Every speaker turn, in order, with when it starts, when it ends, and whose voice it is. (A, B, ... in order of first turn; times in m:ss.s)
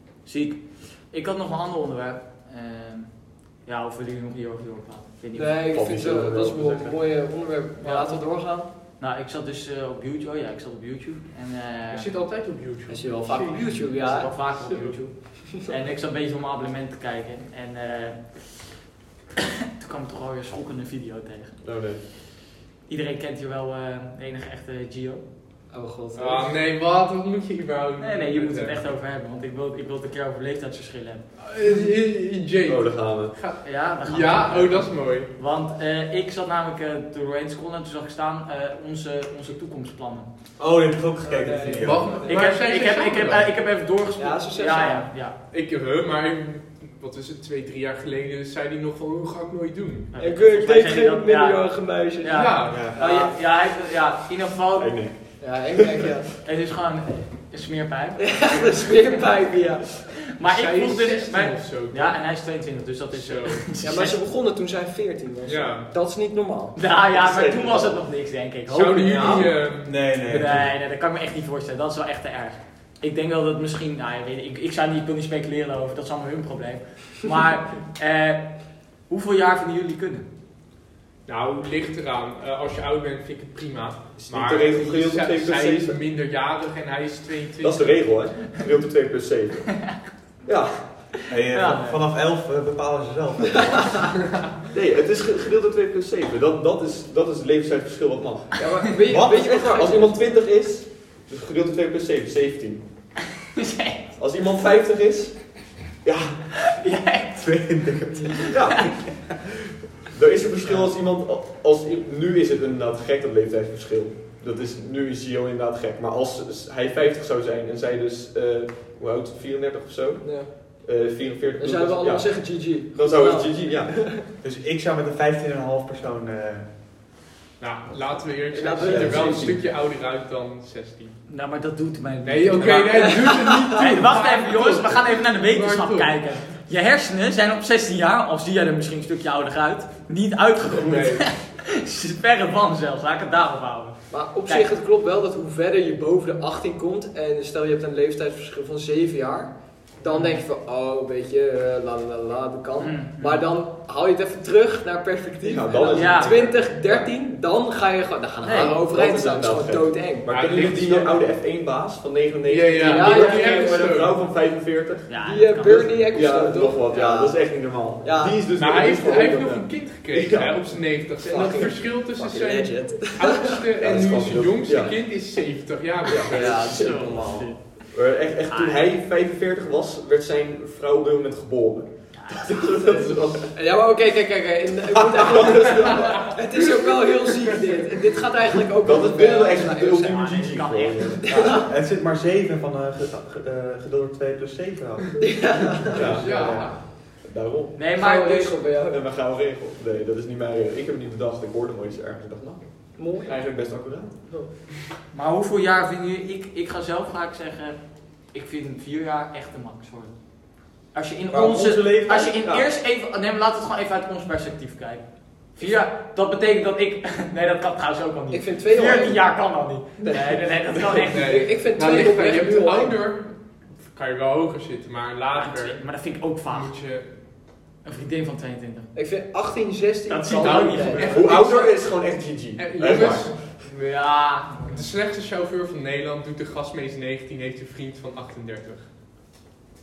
0:00.2-0:05.6 A
0:05.3-0:08.7 B
0:05.7-0:07.0 C
0:07.8-0:12.1 A
0:11.9-0:15.1 D
0:12.9-0:14.3 B
0:13.9-0:18.7 A
0:19.8-0:22.3 A
0:21.6-0:22.0 C
0:22.9-0:25.2 A
0:25.7-0:26.6 B
0:26.2-0:28.8 D
0:28.0-0:31.3 A
0:31.4-0:35.3 D
0:31.6-0:31.9 B
0:32.6-0:33.5 C
0:33.6-0:40.3 A
0:40.6-0:42.3 E
0:41.2-0:42.4 B
0:41.6-0:43.5 D
0:42.3-0:45.4 A
0:44.2-0:45.1 B
0:45.5-0:50.1 D
0:50.1-0:55.1 A
0:50.2-0:53.4 B
0:52.4-0:52.9 D
0:52.7-0:53.0 E
0:54.8-0:56.3 C
0:55.4-0:56.3 B
0:56.4-1:04.2 A
0:58.2-0:59.9 B
1:00.4-1:02.2 D
1:03.1-1:03.7 D
1:03.8-1:06.8 B
1:05.4-1:05.9 D
1:06.8-1:20.3 A
1:07.1-1:08.0 E
1:08.7-1:09.9 D
1:09.2-1:09.5 B
1:09.2-1:10.7 E
1:21.3-1:28.4 D
1:24.2-1:26.0 C
1:27.6-1:29.9 C
1:30.4-1:31.2 C
1:31.3-1:34.1 E
1:31.5-1:32.0 A
1:34.7-1:42.8 C
1:38.6-1:40.2 B
1:39.1-1:39.6 E
1:43.6-1:44.0 A
1:44.2-1:45.7 C
1:46.0-1:46.4 E
1:46.8-1:47.6 A
1:47.3-1:49.2 E
1:48.5-1:49.0 C
1:48.6-1:48.9 A
1:50.1-2:04.1 C
2:00.2-2:00.6 B
2:01.6-2:04.2 B
2:04.4-2:07.2 E
2:07.6-2:11.2 D
2:07.9-2:08.3 E
2:08.5-2:09.6 B
2:08.8-2:09.6 C
2:11.3-2:24.7 A
2:12.2-2:16.4 D
2:12.9-2:13.8 B
2:20.7-2:21.4 D
2:24.1-2:41.1 B
2:30.1-2:30.4 A
2:32.8-2:33.5 A
2:35.4-2:37.1 C
2:35.9-2:36.4 A
2:38.4-2:38.8 A
2:38.5-2:51.0 C
2:40.3-2:41.0 D
2:42.5-2:44.2 D
2:42.8-2:44.1 B
2:43.1-2:43.4 A
2:45.1-2:45.9 A
2:45.2-2:48.4 B
2:48.5-2:56.8 D
2:51.2-2:53.6 B
2:53.8-2:55.0 C
2:56.1-3:03.6 C
2:56.3-2:57.6 B
2:56.6-2:57.2 A
2:58.4-2:58.9 A
3:02.1-3:02.5 A
3:03.5-3:10.3 B
3:05.1-3:06.4 C
3:05.1-3:05.5 E
3:08.8-3:11.3 C
3:09.9-3:11.5 A
3:11.2-3:11.6 B
3:11.3-3:16.8 E
3:15.2-3:16.2 B
3:15.9-3:17.9 C
3:16.2-3:16.8 D
3:17.8-3:18.6 A
3:17.9-3:19.0 B
3:18.8-3:24.3 C
3:24.3-3:24.5 B
3:25.1-3:27.8 A
3:28.3-3:30.2 A
3:30.9-3:41.4 A
3:31.3-3:32.4 E
3:38.3-3:39.2 B
3:40.0-3:41.1 C
3:41.1-3:45.8 D
3:41.2-3:43.0 B
3:45.3-3:46.7 A
3:46.5-3:47.2 D
3:47.8-3:48.9 A
3:48.9-3:51.3 B
3:50.1-3:51.7 A
3:50.4-3:51.7 D
3:51.0-3:53.4 C
3:52.6-3:53.4 D
3:52.8-3:53.3 E
3:53.6-3:54.9 A
3:54.6-3:58.9 D